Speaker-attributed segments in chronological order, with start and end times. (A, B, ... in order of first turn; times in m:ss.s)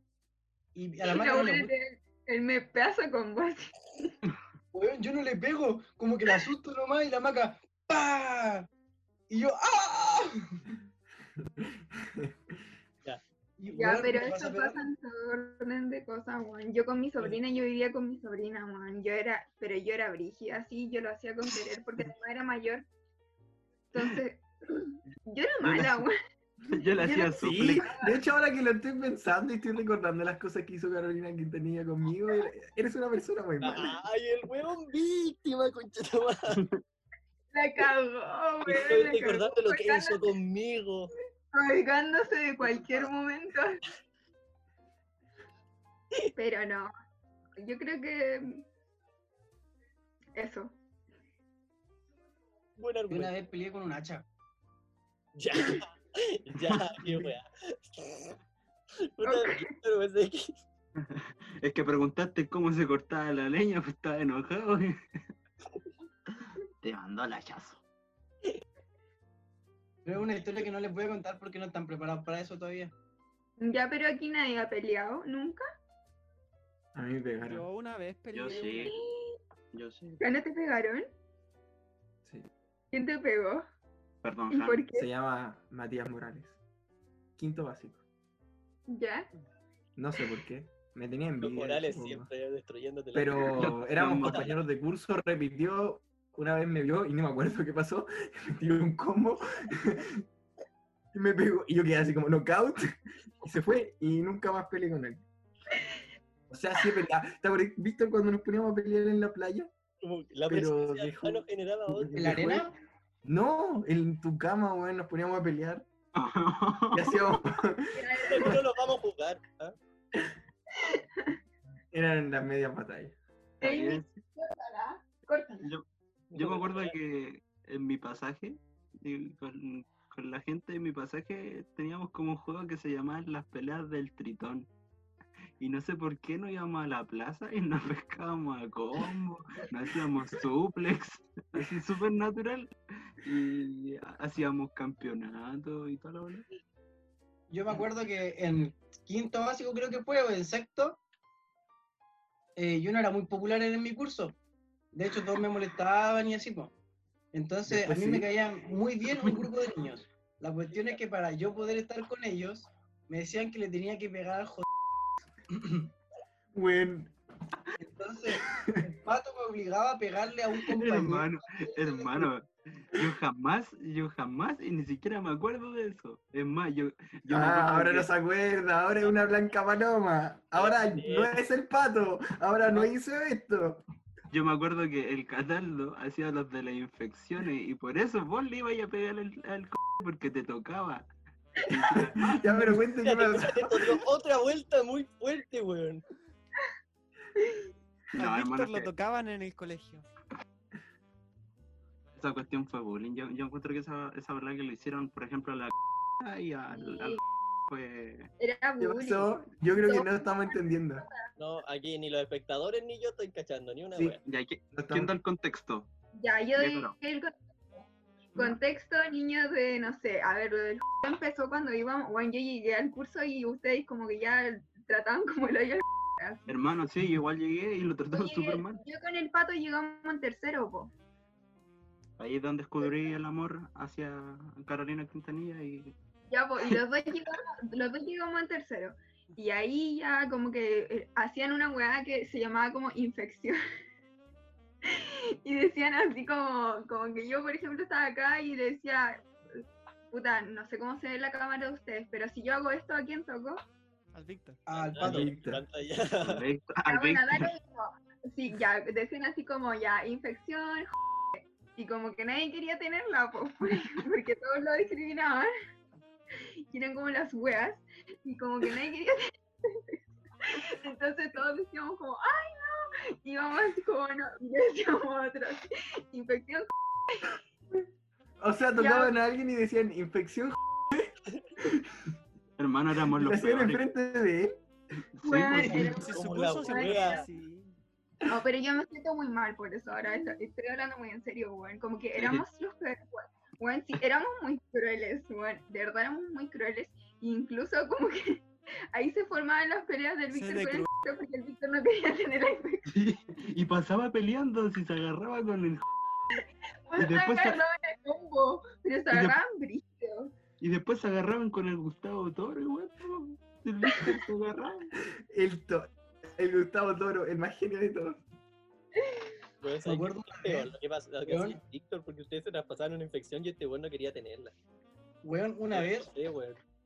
0:00.7-0:01.7 A
0:01.0-0:03.7 B
0:04.7-0:08.7 A
0:09.3-0:10.6 A
0:11.4-0:12.3 C
0:13.6-0:14.8 A
0:13.7-0:22.8 B
0:23.9-0:26.1 B
0:25.6-0:26.0 D
0:26.7-0:27.9 D
0:27.0-0:28.2 B
0:27.4-0:34.0 C
0:33.6-0:36.6 E
0:36.5-0:36.8 D
0:37.5-0:40.3 B
0:38.6-0:41.1 E
0:41.5-0:43.8 B
0:46.4-0:46.9 B
0:47.6-0:48.6 B
0:50.4-0:50.7 B
0:52.8-0:53.3 E
0:53.1-0:54.2 A
0:55.4-0:58.4 E
0:56.6-0:57.1 D
0:59.0-1:00.6 E
0:59.2-0:59.7 B
1:01.0-1:05.0 D
1:06.3-1:07.8 D
1:10.0-1:12.9 A
1:13.6-1:15.6 B
1:16.9-1:17.6 C
1:17.4-1:18.9 F
1:18.3-1:19.0 D
1:18.5-1:19.3 B
1:19.7-1:20.2 D
1:20.2-1:21.1 B
1:22.9-1:23.6 B
1:24.2-1:24.8 D
1:24.5-1:25.1 B
1:24.9-1:26.6 C
1:27.4-1:28.0 C
1:28.9-1:29.3 B
1:30.0-1:32.3 C
1:31.4-1:33.7 E
1:33.1-1:40.2 C
1:33.5-1:34.6 D
1:41.1-1:45.2 C
1:46.5-1:49.7 C
1:50.0-1:52.4 E
1:50.5-1:52.7 C
1:52.2-1:52.7 A
1:53.2-1:55.8 C
1:56.1-1:57.2 D
1:56.9-1:58.6 C
1:58.0-1:58.5 B
1:58.2-1:59.7 E
2:00.8-2:01.4 B
2:01.9-2:03.2 C
2:03.6-2:04.2 D
2:03.6-2:05.7 B
2:06.3-2:06.9 E
2:06.3-2:14.7 D
2:15.6-2:26.4 D
2:27.5-2:31.0 A
2:32.6-2:34.4 A
2:34.9-2:36.7 A
2:37.3-2:44.6 A
2:37.7-2:38.3 C
2:45.5-2:45.9 A
2:46.5-2:47.1 C
2:47.8-2:52.3 A
2:48.5-2:48.9 C
2:50.7-2:58.1 D
2:57.3-3:03.8 C
3:00.6-3:01.3 E
3:04.3-3:11.0 D
3:11.5-3:12.9 D
3:11.9-3:14.0 C
3:13.0-3:16.0 E
3:17.4-3:17.6 B
3:18.2-3:20.1 F
3:18.2-3:18.9 D
3:22.2-3:28.3 D
3:26.7-3:27.1 B
3:28.4-3:29.3 B
3:28.8-3:31.0 C
3:29.8-3:31.2 B
3:31.4-3:34.2 E
3:34.2-3:35.9 D
3:34.7-3:35.1 C
3:36.2-3:46.5 B
3:36.6-3:37.0 D
3:46.5-3:48.8 D
3:48.1-3:50.9 B
3:52.2-3:55.9 D
3:56.3-4:03.6 B
4:04.9-4:13.6 B
4:14.1-4:14.6 F
4:14.7-4:15.3 A
4:14.7-4:16.4 E
4:15.0-4:15.6 C
4:16.2-4:17.5 D
4:16.8-4:25.5 B
4:26.7-4:37.4 B
4:38.4-4:42.1 C
4:38.8-4:39.1 B
4:42.6-4:43.9 D
4:43.1-4:44.6 C
4:45.1-4:45.9 D
4:45.2-4:47.3 B
4:45.6-4:47.2 E
4:45.6-4:47.7 F
4:48.2-5:02.9 B
4:52.2-4:52.4 D
5:00.3-5:00.9 F
5:02.9-5:05.8 D
5:06.4-5:10.3 B
5:07.0-5:07.6 D
5:09.1-5:09.4 D
5:10.6-5:14.9 D
5:13.9-5:14.2 B
5:15.1-5:18.2 C
5:19.0-5:19.3 B
5:19.6-5:24.5 E
5:19.8-5:20.7 A
5:21.2-5:21.6 A
5:25.2-5:26.1 A
5:25.7-5:26.6 E